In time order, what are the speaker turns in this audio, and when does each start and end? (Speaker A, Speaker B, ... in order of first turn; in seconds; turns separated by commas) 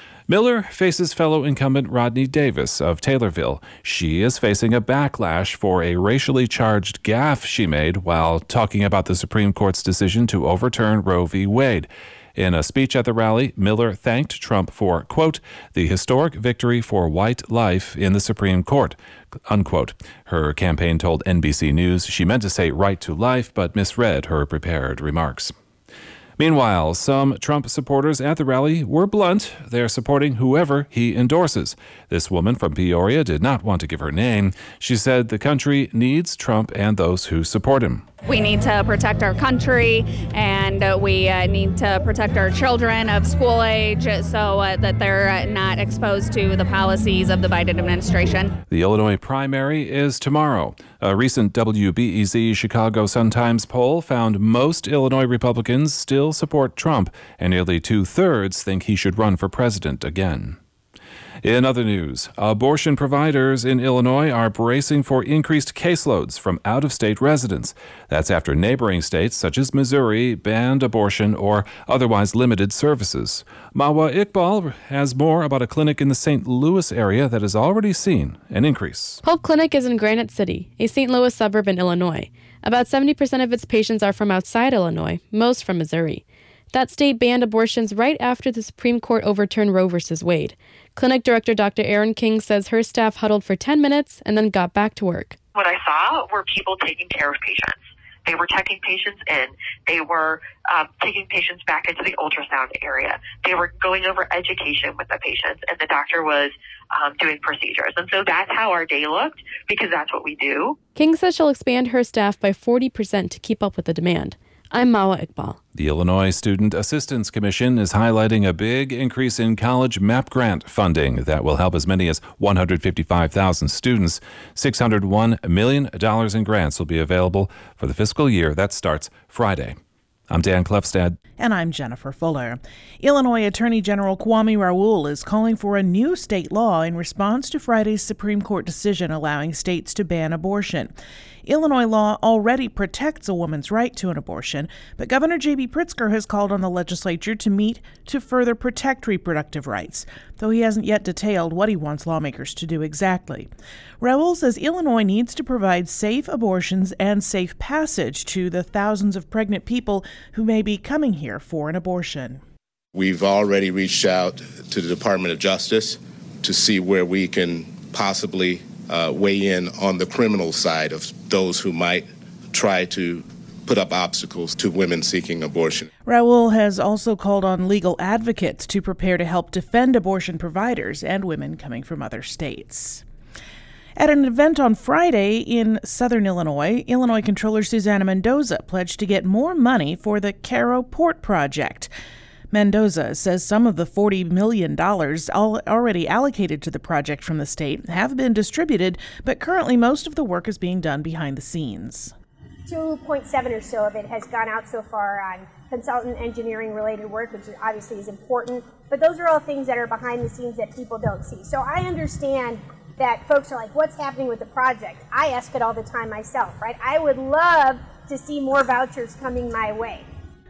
Speaker A: 0.3-18.9, Speaker A: 19.5-25.5, Speaker A: 26.4-38.0, Speaker B: 38.3-48.5, Speaker A: 48.7-60.6, Speaker A: 61.4-79.2, Speaker C: 79.2-95.3, Speaker D: 95.5-110.8, Speaker C: 111.0-115.6, Speaker A: 115.7-129.8, Speaker A: 130.3-131.2, Speaker E: 131.4-140.9, Speaker E: 141.4-153.5, Speaker E: 154.0-162.4, Speaker F: 162.9-175.9, Speaker E: 176.1-183.0, Speaker E: 184.0-191.9, Speaker E: 192.5-202.1, Speaker G: 202.7-220.0